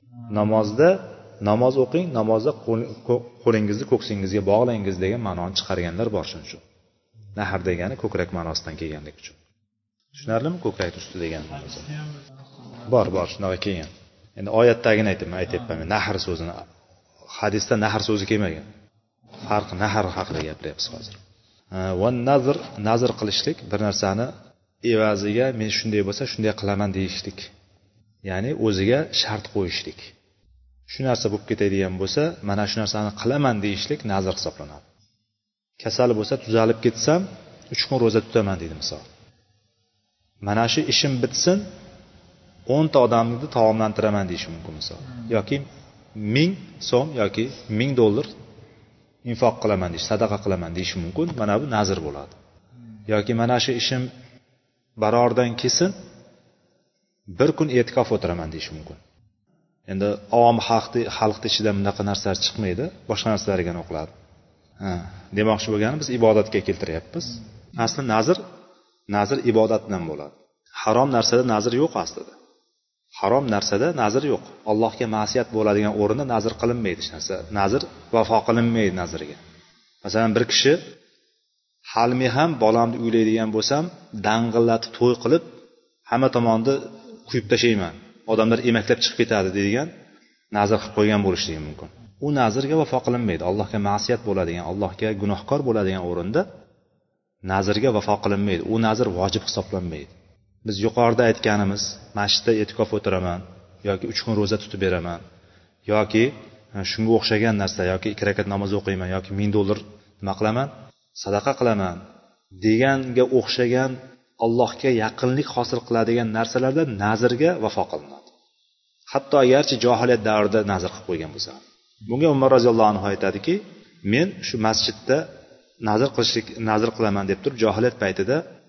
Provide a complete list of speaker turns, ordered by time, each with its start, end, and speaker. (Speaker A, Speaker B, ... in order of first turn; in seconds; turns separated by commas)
Speaker A: 0.3-6.6, Speaker A: 7.4-9.4, Speaker A: 10.2-12.0, Speaker A: 12.8-16.6, Speaker A: 17.3-18.7, Speaker A: 19.4-21.2, Speaker A: 21.7-24.3, Speaker A: 24.9-27.5, Speaker A: 28.2-30.1, Speaker A: 30.9-34.8, Speaker A: 35.8-39.1, Speaker A: 40.4-41.7, Speaker A: 42.7-48.3, Speaker A: 49.2-52.4, Speaker A: 53.1-54.1, Speaker A: 55.0-55.9, Speaker A: 57.3-59.0, Speaker A: 59.9-64.1, Speaker A: 64.8-68.4, Speaker A: 69.1-72.3, Speaker A: 73.2-79.4, Speaker A: 80.0-80.8, Speaker A: 81.9-85.5, Speaker A: 86.1-89.9, Speaker A: 90.5-96.5, Speaker A: 97.5-100.1, Speaker A: 100.7-105.2, Speaker A: 105.9-112.0, Speaker A: 112.6-118.3, Speaker A: 119.1-125.3, Speaker A: 125.8-128.4